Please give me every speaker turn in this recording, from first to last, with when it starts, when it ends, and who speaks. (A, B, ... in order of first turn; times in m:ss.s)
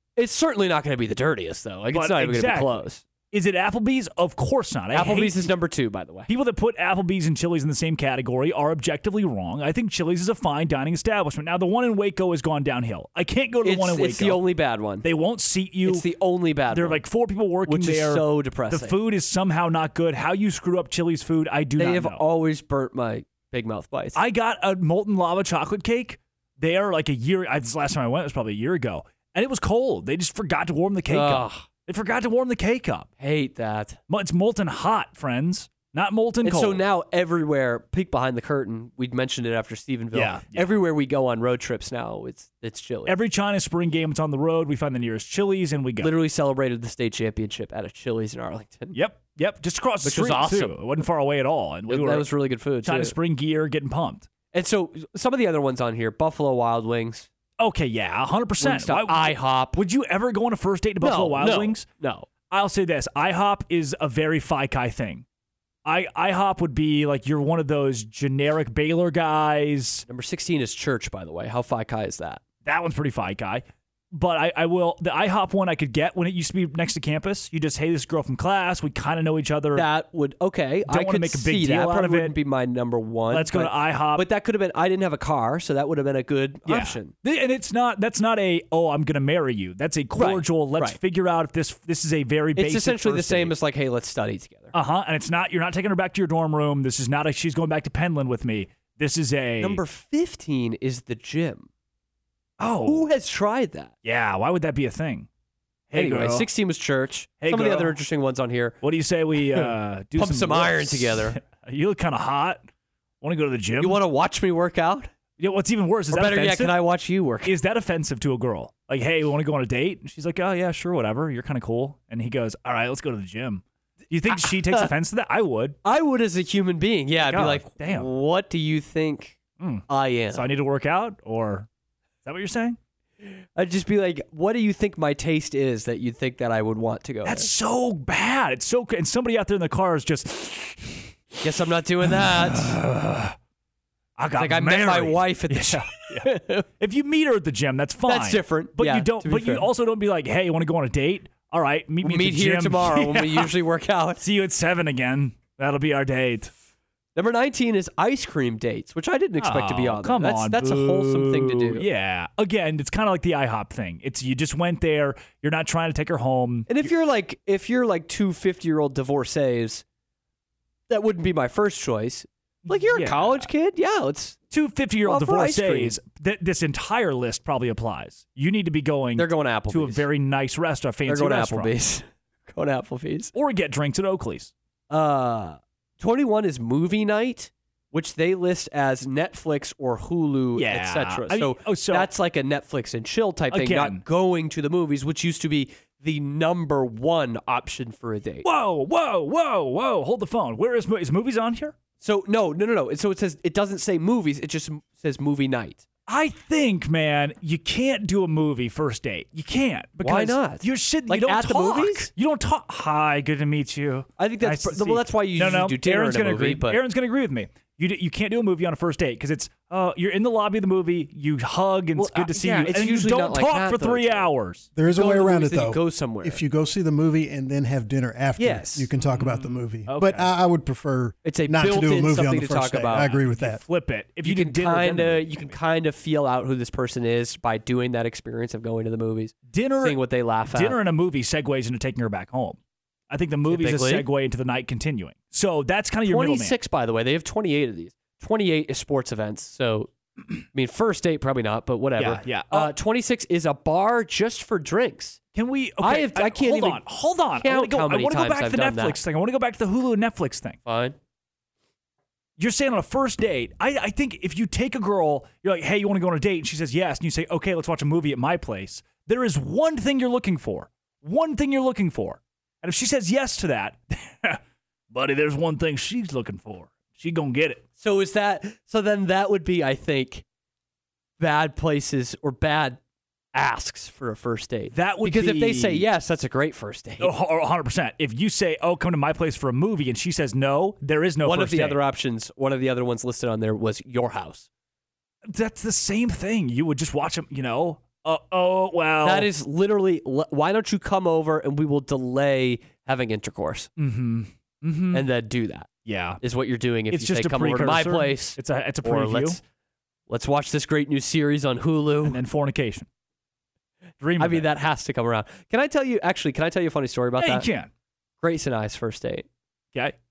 0:00.2-0:03.0 A
0:01.9-0:05.5 B
0:04.9-0:06.3 A
0:06.3-0:14.4 B
0:13.6-0:15.0 A
0:15.0-0:16.0 B
0:15.8-0:17.0 A
0:16.7-0:22.2 B
0:17.7-0:18.9 A
0:21.8-0:24.2 A
0:24.1-0:33.1 B
0:31.1-0:31.6 A
0:33.2-0:34.0 A
0:34.1-0:36.8 B
0:36.4-0:43.2 A
0:40.1-0:40.8 B
0:43.0-0:46.1 B
0:46.0-0:49.0 A
0:48.9-0:52.3 B
0:50.0-0:50.9 A
0:51.9-0:53.1 A
0:52.8-0:54.3 B
0:54.5-0:57.3 A
0:57.6-1:01.8 B
0:58.6-0:59.8 A
1:01.0-1:02.3 A
1:02.5-1:05.2 B
1:05.8-1:10.0 B
1:10.1-1:12.4 A
1:12.6-1:19.9 B
1:19.7-1:27.1 A
1:20.9-1:22.4 B
1:23.3-1:24.2 B
1:26.7-1:33.5 B
1:30.2-1:31.0 A
1:32.6-1:34.7 A
1:34.7-1:39.8 B
1:39.6-1:41.7 A
1:42.6-1:43.1 B
1:42.8-1:43.9 A
1:44.0-1:45.3 B
1:45.9-1:46.5 B
1:45.9-1:48.8 A
1:47.4-1:48.0 B
1:48.8-1:52.6 B
1:49.5-1:51.4 A
1:53.2-1:54.0 B
1:53.8-1:55.1 A
1:55.4-1:56.8 B
1:56.1-1:57.5 A
1:57.4-2:05.8 B
2:04.3-2:04.9 A
2:05.8-2:09.4 A
2:07.2-2:08.1 B
2:09.6-2:11.7 B
2:09.9-2:10.4 A
2:12.2-2:12.8 B
2:13.5-2:17.5 A
2:17.2-2:21.1 B
2:21.4-2:22.7 A
2:22.0-2:23.3 B
2:24.2-2:33.5 B
2:24.4-2:26.6 A
2:28.1-2:29.7 A
2:32.0-2:34.2 A
2:34.2-2:36.5 B
2:37.2-2:41.8 A
2:39.4-2:46.9 B
2:46.7-2:49.8 A
2:50.9-2:54.4 A
2:52.7-2:53.5 B
2:54.5-3:01.7 B
2:55.0-2:55.9 A
2:59.2-3:00.0 A
3:01.1-3:03.3 A
3:03.3-3:04.5 B
3:04.9-3:18.4 A
3:10.6-3:12.1 B
3:13.5-3:14.0 B
3:18.4-3:21.8 B
3:22.0-3:25.8 A
3:26.1-3:44.7 B
3:30.0-3:32.1 A
3:34.2-3:36.8 A
3:42.0-3:44.2 A
3:44.7-3:53.6 C
3:44.9-3:46.4 A
3:48.4-3:48.9 A
3:49.0-3:50.3 B
3:51.2-3:53.2 A
3:53.0-3:55.6 B
3:54.2-4:00.8 A
3:59.5-4:02.6 B
4:03.1-4:06.5 B
4:03.5-4:04.0 A
4:06.1-4:09.9 A
4:10.5-4:15.2 A
4:12.0-4:12.7 B
4:15.3-4:20.6 B
4:15.8-4:16.8 A
4:17.4-4:19.0 A
4:20.6-4:21.0 A
4:22.4-4:34.4 B
4:34.9-4:37.6 B
4:37.8-4:40.2 A
4:41.2-4:42.8 A
4:43.3-4:47.1 A
4:44.7-4:45.9 B
4:47.0-4:51.8 B
4:51.2-4:54.5 A
4:55.3-4:59.3 B
4:59.0-5:03.7 A
5:03.8-5:05.0 B
5:04.9-5:05.7 A
5:05.8-5:06.2 B
5:06.2-5:09.4 A
5:06.9-5:09.4 B
5:10.1-5:12.2 A
5:12.0-5:12.9 B
5:14.0-5:14.5 B
5:14.2-5:17.4 A
5:17.2-5:17.7 B
5:18.2-5:19.3 A